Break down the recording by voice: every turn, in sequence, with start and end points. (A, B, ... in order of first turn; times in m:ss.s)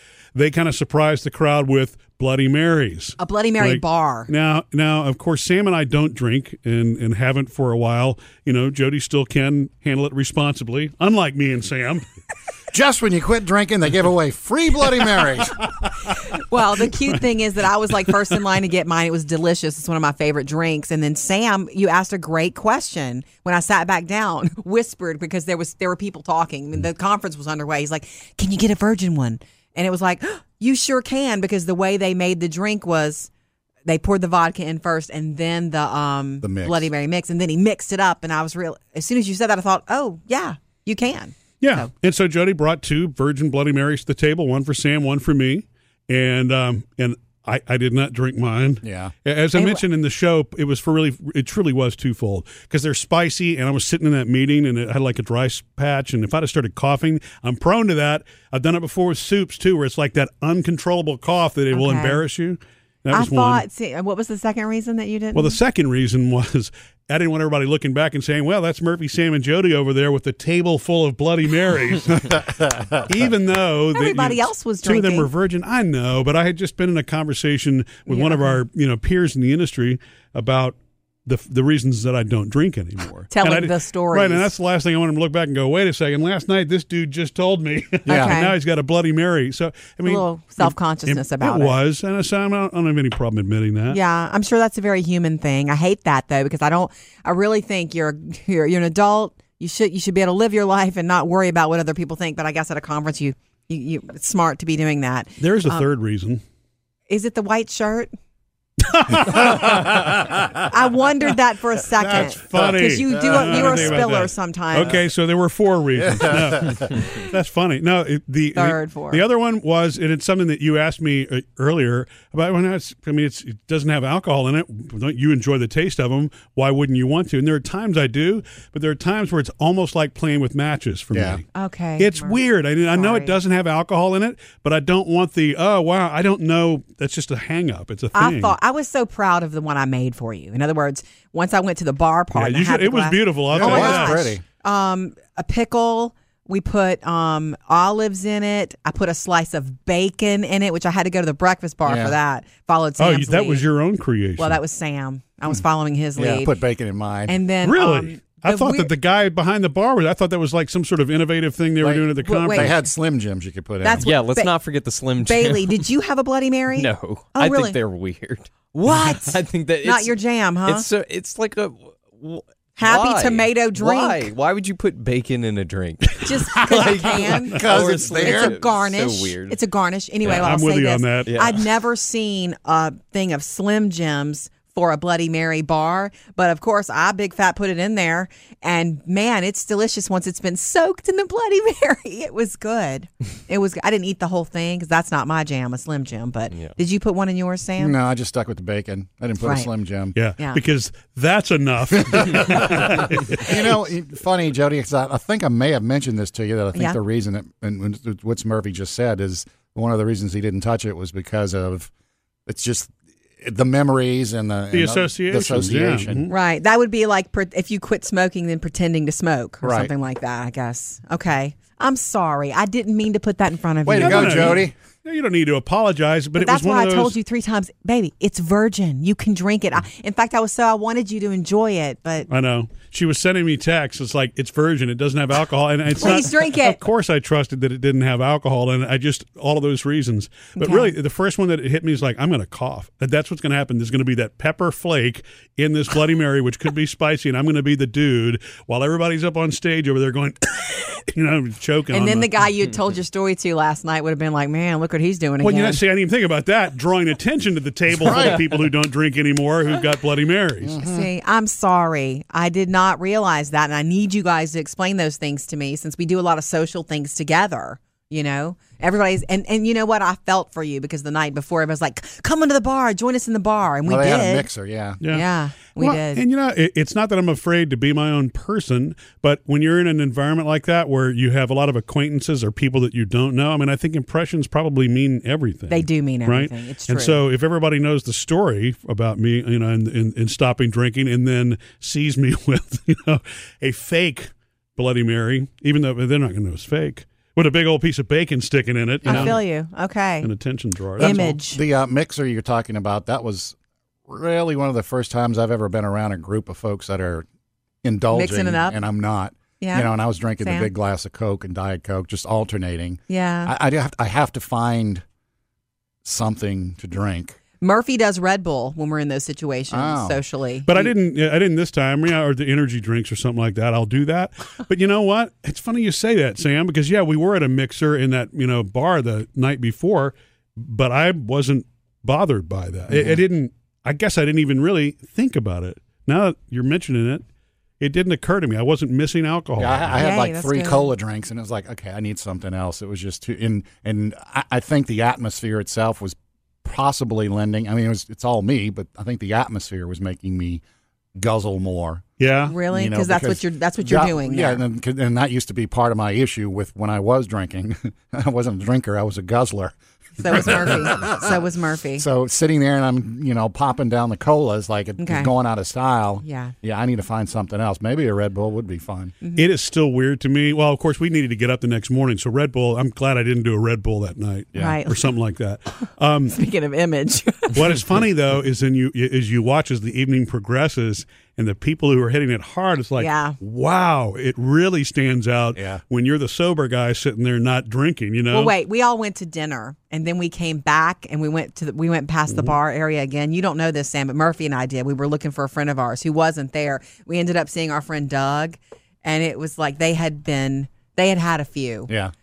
0:00.3-0:12.0 A
0:03.2-0:04.3 B
0:12.7-0:15.6 C
0:15.8-0:16.1 A
0:16.1-0:33.3 B
0:33.8-0:41.9 B
0:36.4-0:36.9 C
0:41.6-1:03.6 A
0:48.8-0:49.1 C
0:49.5-0:49.8 B
1:01.7-1:02.2 B
1:03.1-1:05.6 B
1:05.3-1:34.0 A
1:13.9-1:15.3 B
1:18.1-1:18.6 B
1:23.3-1:24.5 B
1:28.0-1:28.6 B
1:30.0-1:31.8 B
1:33.9-1:45.9 B
1:45.4-1:46.4 A
1:47.1-1:48.1 B
1:48.9-1:50.2 A
1:49.3-1:49.8 B
1:50.6-1:55.0 B
1:52.0-2:11.4 A
1:53.1-1:54.0 C
1:56.0-1:56.9 C
1:58.6-1:59.2 B
2:11.1-2:11.4 C
2:11.5-2:13.3 B
2:12.0-2:18.6 A
2:18.1-2:33.6 B
2:22.3-2:24.2 A
2:23.6-2:24.4 C
2:31.8-2:32.2 C
2:33.0-2:34.6 A
2:34.4-2:36.6 B
2:36.2-2:37.3 C
2:37.3-2:38.9 B
2:37.6-2:42.7 A
2:41.8-2:44.1 C
2:42.2-2:42.8 B
2:43.8-2:44.5 B
2:44.0-2:45.9 D
2:45.2-2:47.8 B
2:46.7-2:59.6 D
2:48.7-2:50.9 B
2:52.8-2:54.3 B
2:56.2-3:18.0 B
2:57.5-2:58.6 C
3:00.2-3:01.3 A
3:01.2-3:01.6 D
3:17.8-3:20.2 C
3:19.4-3:19.7 B
3:20.1-3:23.4 A
3:22.1-3:31.9 C
3:26.7-3:27.0 B
3:32.5-3:36.2 C
3:34.7-3:36.3 A
3:36.3-3:44.6 B
3:39.6-3:39.9 C
3:43.8-3:44.7 C
3:44.0-3:47.2 A
3:46.4-3:52.3 B
3:52.3-4:12.4 A
3:56.0-3:56.8 B
4:00.6-4:00.9 B
4:11.9-4:15.8 B
4:15.4-4:20.8 A
4:18.0-4:18.4 C
4:20.6-4:21.1 C
4:20.8-4:34.5 B
4:33.8-4:35.0 C
4:35.0-4:35.2 A
4:35.1-4:36.2 B
4:35.8-4:59.4 A
4:45.7-4:47.2 B
4:59.0-4:59.4 C
4:59.0-5:00.3 B
5:00.2-5:01.4 A
5:01.0-5:01.6 B
5:01.0-5:03.6 C
5:04.1-5:07.2 C
5:07.8-5:15.0 C
5:08.1-5:08.8 B
5:09.6-5:10.7 B
5:13.1-5:13.5 B
5:16.0-5:17.4 C
5:17.6-5:20.9 B
5:19.7-5:20.2 C
5:20.7-5:37.2 A
5:32.9-5:33.2 C
5:37.8-5:40.0 A
5:39.6-5:50.6 C
5:40.0-5:40.9 B
5:51.2-5:52.0 C
5:52.2-5:52.6 A
5:52.4-5:54.6 B
5:52.7-6:01.4 C
6:00.2-6:02.0 B
6:02.0-6:09.1 C
6:05.0-6:05.3 B
6:06.2-6:06.5 B
6:09.4-6:16.4 A
6:14.5-6:15.1 B
6:16.3-6:17.8 B
6:17.5-6:28.5 A
6:23.0-6:23.4 B
6:25.5-6:25.8 C
6:28.3-6:41.9 B